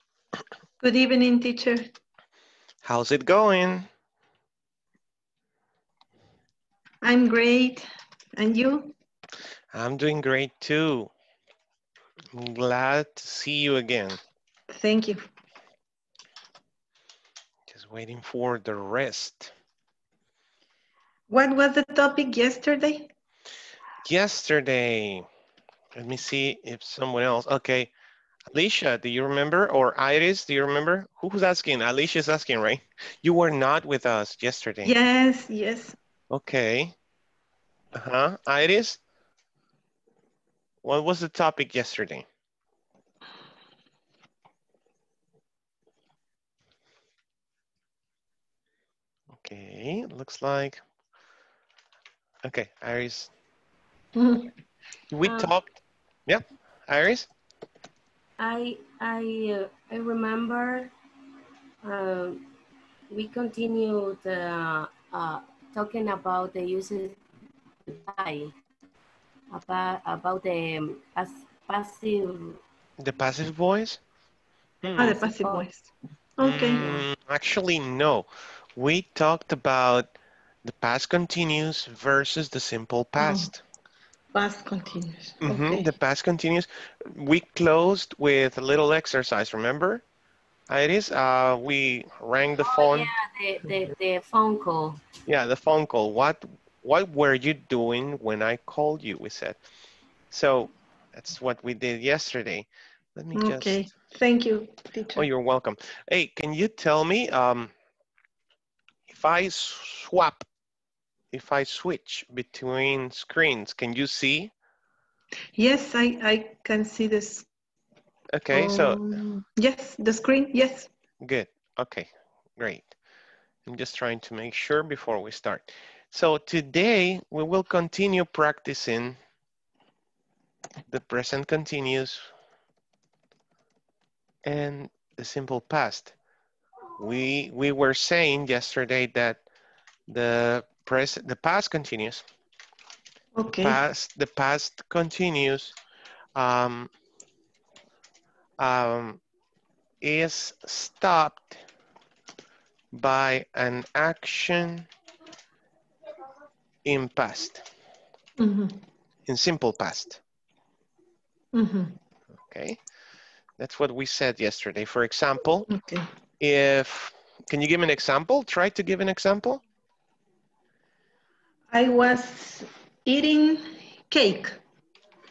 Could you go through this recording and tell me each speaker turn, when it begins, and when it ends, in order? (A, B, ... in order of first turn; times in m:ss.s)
0:00.8-0:01.8 A
0:02.8-0:03.9 B
0:07.0-0:08.9 A
0:09.7-0:11.1 B
0:12.4-0:14.2 B
0:14.7-0:15.2 A
0:17.7-0:19.5 B
0:21.3-0:23.1 A
0:24.0-0:25.2 B
0:26.0-0:27.9 B
0:28.5-0:35.0 B
0:34.8-0:36.0 A
0:36.3-0:36.9 B
0:37.9-0:39.0 B
0:40.8-0:42.3 B
0:49.3-0:50.8 B
0:52.4-0:53.3 B
0:54.2-0:54.5 A
0:55.1-0:57.3 B
0:55.2-0:55.5 C
0:58.4-1:00.9 C
1:01.8-1:02.4 C
1:03.1-1:07.2 C
1:07.9-1:08.5 C
1:09.5-1:12.6 C
1:13.0-1:14.0 B
1:14.8-1:15.2 B
1:14.9-1:15.7 C
1:15.0-1:16.9 A
1:16.4-1:23.6 B
1:23.2-1:23.5 A
1:24.3-1:25.9 A
1:25.4-1:30.0 B
1:30.7-1:33.1 B
1:32.6-1:35.0 C
1:35.3-1:39.6 B
1:40.3-1:43.9 B
1:43.3-1:45.3 A
1:45.2-1:47.7 B
1:49.1-1:50.4 B
1:51.3-1:54.5 B
1:55.6-1:57.5 A
1:58.3-1:59.0 B
1:58.5-2:00.9 A
2:01.2-2:02.9 B
2:03.7-2:09.2 B
2:10.9-2:12.3 B
2:14.4-2:16.1 B
2:17.0-2:19.4 B
2:20.1-2:22.2 B
2:23.4-2:23.8 A
2:23.5-2:25.8 B
2:26.4-2:26.9 B
2:28.6-2:29.2 B
2:30.0-2:31.6 B
2:32.9-2:34.9 B
2:36.8-2:37.7 B
2:38.4-2:38.8 A
2:39.3-2:40.2 B
2:41.5-2:42.0 A
2:42.5-2:42.8 B
2:43.6-2:45.7 B
2:45.7-2:46.1 A
2:46.4-2:49.6 B
2:51.7-2:54.5 A